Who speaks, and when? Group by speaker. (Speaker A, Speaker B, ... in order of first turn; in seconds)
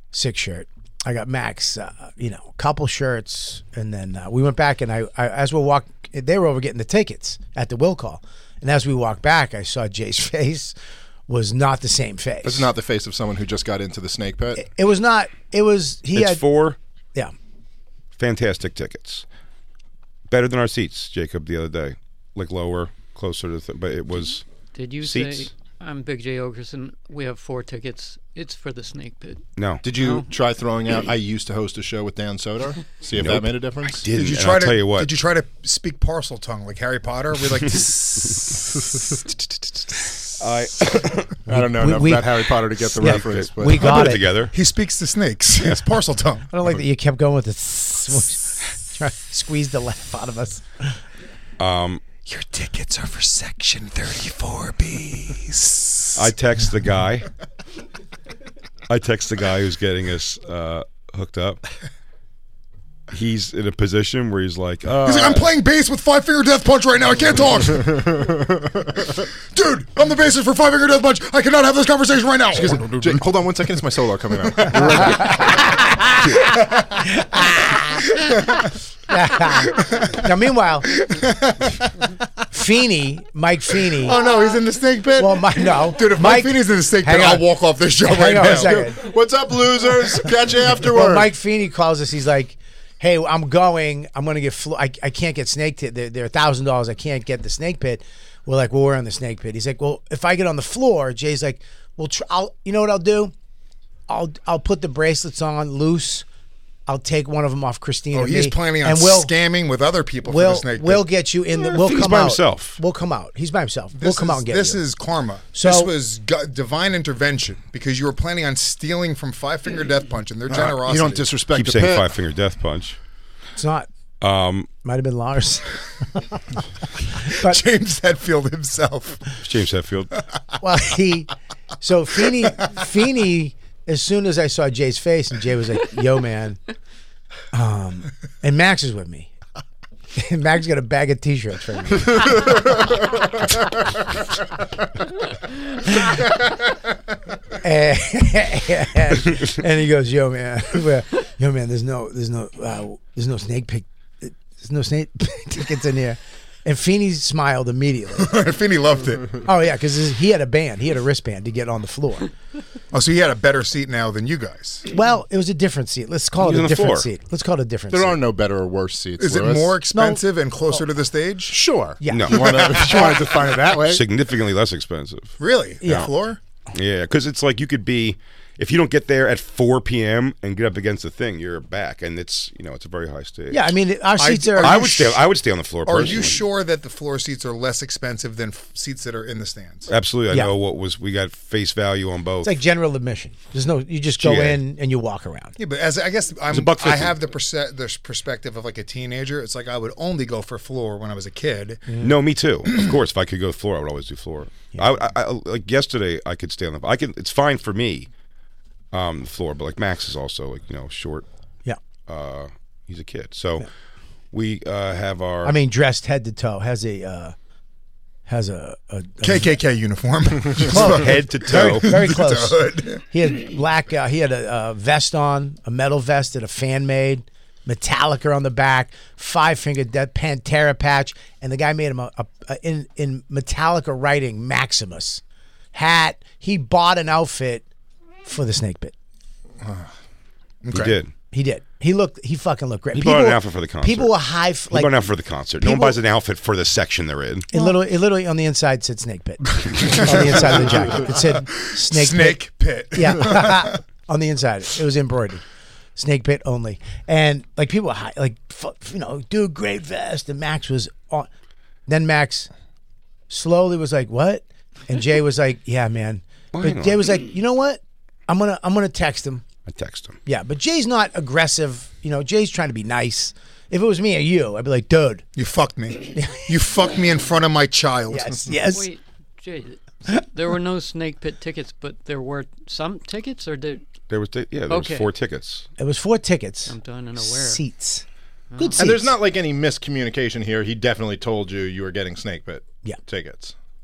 Speaker A: 0.1-10.7, 11.3-12.7, 14.6-16.4, 41.5-42.4, 43.0-44.3, 46.5-51.0, 75.2-76.1, 77.0-78.0, 79.1-80.9, 82.5-84.2, 85.2-87.5, 88.0-89.0, 90.8-103.3, 104.1-106.3, 106.9-109.3, 110.3-114.8, 115.5-115.9, 123.6-123.9, 124.8-126.6, 127.2-127.6, 130.6-136.6, 137.5-139.3, 140.2-142.7, 147.6-158.3, 159.4-162.3, 164.9-168.2, 169.9-170.8, 172.0-172.5, 175.8-176.1, 183.5-184.8, 192.4-195.6, 201.9-202.2, 215.4-217.3, 218.3-219.5, 220.7-235.2, 235.7-237.7, 238.2-238.9, 241.3-245.0, 245.6-246.0, 247.5-252.4, 252.9-255.4, 256.0-261.3, 261.9-262.5, 263.3-269.4, 270.3-275.2, 276.1-276.4, 278.1-278.9, 285.8-288.1, 288.6-289.1
Speaker B: 12.4-14.7, 29.8-34.0, 41.5-43.9, 67.9-68.5, 72.5-75.5, 88.4-91.3, 120.5-122.1, 167.9-169.8, 171.5-174.0, 288.8-293.5
Speaker C: 16.1-16.8, 18.2-19.3, 20.3-24.4, 25.0-25.5, 29.6-29.8, 33.2-35.1, 40.4-41.4, 43.0-44.5, 51.6-52.0, 56.1-57.3, 58.9-61.6, 63.1-65.5, 111.6-112.8, 121.5-123.0, 124.2-124.7, 129.4-130.1, 166.4-167.1, 172.1-172.7, 173.9-176.1, 176.7-183.7, 184.6-186.4, 189.9-192.5, 194.2-194.6, 196.5-197.2, 202.0-208.1, 208.9-211.3, 212.1-213.7, 214.3-215.6, 220.8-221.9, 240.7-241.1, 242.9-244.2, 244.7-247.5, 266.5-267.1, 269.7-270.2, 284.1-285.7
Speaker D: 24.7-30.3, 278.7-283.8, 284.7-285.1, 286.7-287.6, 288.5-288.8
Speaker E: 34.1-39.1, 44.5-46.5, 52.3-56.3, 65.0-73.2, 74.6-75.2, 76.3-77.1, 79.7-80.2, 80.9-81.9, 83.9-88.9, 108.1-111.1, 114.0-121.3, 127.3-129.3, 158.2-159.4, 162.9-164.8, 169.2-171.6, 172.4-173.6, 175.4-176.4, 184.2-185.3, 185.8-189.9, 195.6-201.9, 219.2-223.0, 240.6-240.9, 249.7-253.8, 275.4-278.5